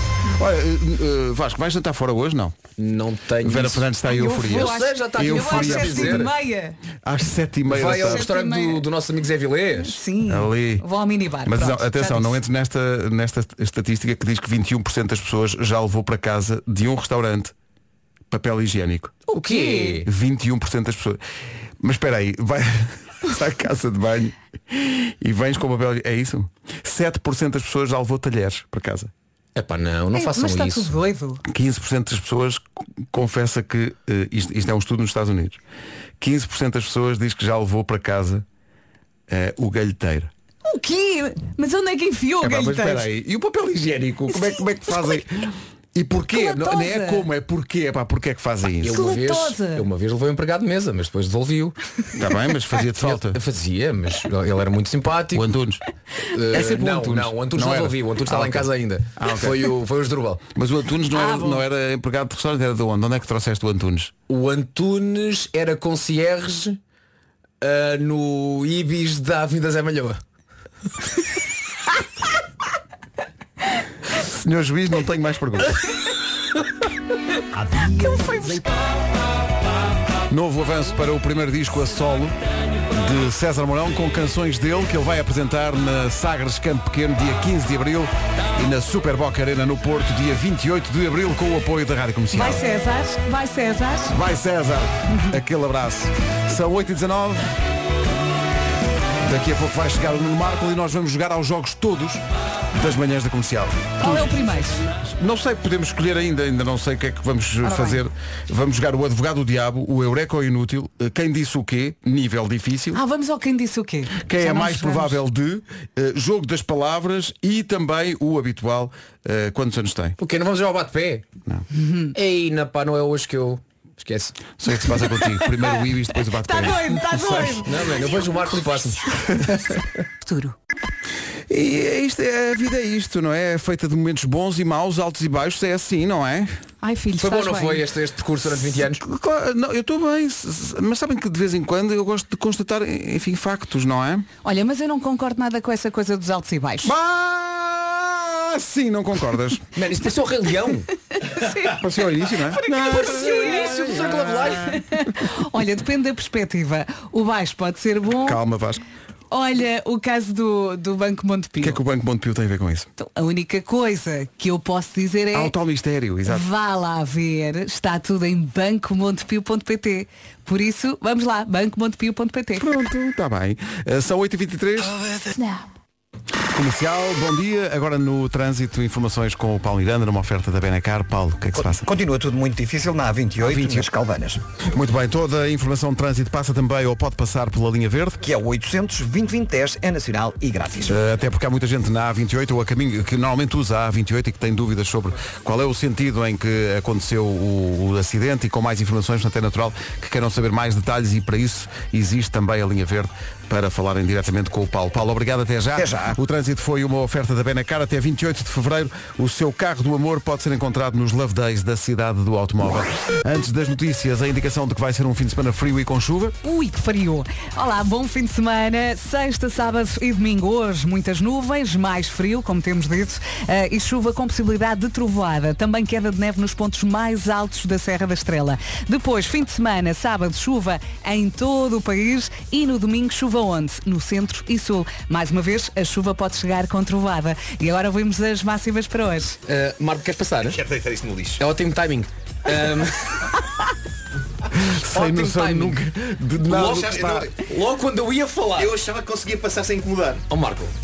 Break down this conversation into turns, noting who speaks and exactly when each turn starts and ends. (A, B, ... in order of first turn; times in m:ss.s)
0:00.3-0:02.5 A
0:02.8-0:06.3 B
0:03.4-0:06.3 A
0:04.0-0:06.8 C
0:07.0-0:08.3 A
0:07.6-0:10.0 B
0:07.9-0:08.8 C
0:09.8-0:12.4 C
0:10.2-0:10.8 A
0:11.4-0:17.5 A
0:18.3-0:19.2 A
0:19.3-0:20.0 C
0:19.3-0:20.1 B
0:20.0-0:21.2 A
0:21.8-0:29.1 A
0:29.6-0:30.9 B
0:30.1-0:31.4 C
0:31.5-0:35.6 A
0:36.2-0:38.4 A
0:39.3-0:40.3 A
0:40.6-0:43.1 C
0:42.4-0:49.0 A
0:46.3-0:47.3 C
0:48.8-0:51.8 B
0:48.9-0:49.8 C
0:52.2-0:53.4 A
0:53.0-0:55.5 B
0:55.3-0:55.8 A
0:56.3-1:00.4 B
0:56.5-0:59.7 A
1:00.5-1:04.1 A
1:01.1-1:01.6 C
1:04.3-1:06.8 B
1:07.6-1:10.2 B
1:14.2-1:15.8 A
1:17.8-1:18.6 C
1:20.3-1:22.3 A
1:22.9-1:32.6 A
1:32.3-1:34.1 C
1:34.1-1:37.5 A
1:39.2-1:44.4 A
1:44.0-1:44.8 C
1:45.0-1:53.0 A
1:47.6-1:48.0 C
1:52.9-1:55.2 C
1:54.2-2:00.2 A
2:00.2-2:01.2 B
2:01.8-2:02.0 C
2:02.1-2:04.4 B
2:04.6-2:07.6 A
2:05.2-2:05.6 C
2:06.3-2:08.2 C
2:07.6-2:09.1 B
2:10.2-2:10.5 C
2:11.5-2:16.6 A
2:16.8-2:17.8 C
2:17.2-2:19.0 B
2:18.9-2:24.3 A
2:24.4-2:26.9 C
2:26.8-2:29.6 A
2:29.7-2:30.9 B
2:31.2-2:31.8 C
2:31.8-2:34.5 A
2:32.4-2:34.0 C
2:32.7-2:34.8 B
2:34.5-2:38.4 C
2:38.2-2:38.8 A
2:39.3-2:41.8 C
2:41.6-2:42.9 A
2:43.0-2:45.5 C
2:45.3-2:46.4 A
2:46.2-2:52.6 C
2:52.6-2:55.2 A
2:56.5-3:01.8 A
3:01.5-3:04.4 D
3:04.7-3:08.2 A
3:08.2-3:11.0 D
3:10.9-3:36.4 A
3:25.7-3:26.2 D
3:36.4-3:59.4 C
3:59.4-4:00.6 B
4:00.4-4:01.4 E
4:01.4-4:03.3 B
4:04.5-4:07.3 A
4:04.9-4:05.8 B
4:06.4-4:08.7 B
4:06.7-4:07.2 E
4:08.6-4:10.2 E
4:10.3-4:10.7 B